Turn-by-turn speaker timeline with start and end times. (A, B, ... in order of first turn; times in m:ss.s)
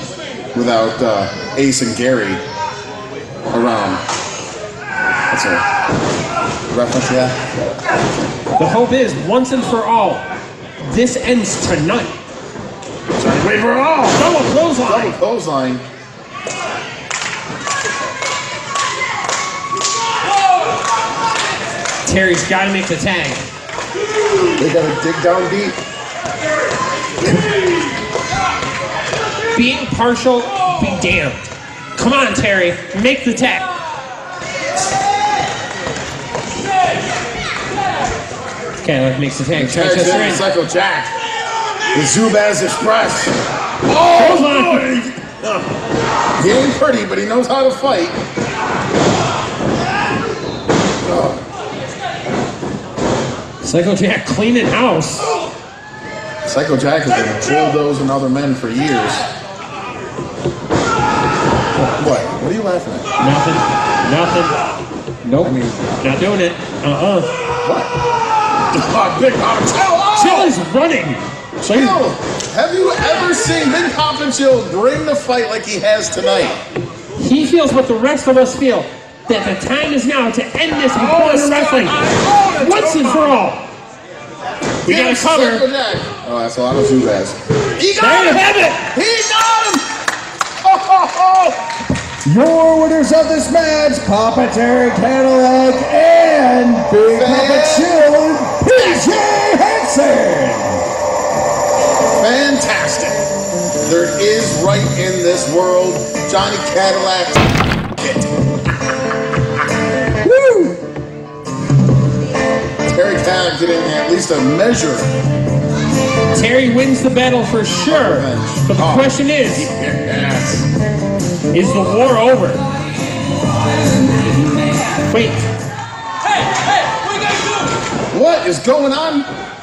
0:00.5-0:02.4 A
0:03.5-0:04.0 A
0:05.3-0:05.6 A
0:06.7-0:07.4 A
0:08.6-0:10.2 B
0:10.8-0:12.2 B
0:13.1-0:15.8 A
0:14.1-0:15.2 B
0:22.0-0:23.4 B
0:24.6-0:25.8 A
0:29.6-0:33.7 B
0:38.8-0:40.4 B
0:39.5-0:41.1 A
0:41.9-0:45.3 A
0:44.2-0:44.9 B
0:46.4-0:48.2 A
0:51.0-0:51.4 A
0:53.6-0:55.3 B
0:56.4-0:59.3 A
1:02.0-1:03.1 A
1:03.2-1:04.6 B
1:05.2-1:07.3 B
1:05.4-1:06.0 A
1:07.6-1:07.9 A
1:08.7-1:10.6 A
1:10.2-1:12.0 B
1:11.6-1:16.6 A
1:17.2-1:22.0 B
1:20.9-1:23.4 A
1:22.6-1:23.6 B
1:24.8-1:29.9 A
1:24.8-1:25.7 B
1:28.0-1:28.8 B
1:30.6-1:31.6 A
1:32.2-1:40.8 C
1:37.1-1:37.9 A
1:38.6-1:39.3 A
1:42.2-1:43.3 A
1:43.8-1:48.3 A
1:50.2-1:50.7 B
1:52.8-1:55.1 A
1:56.3-1:59.7 B
1:57.8-2:00.7 A
2:01.5-2:02.6 B
2:05.0-2:05.4 B
2:08.1-2:09.3 A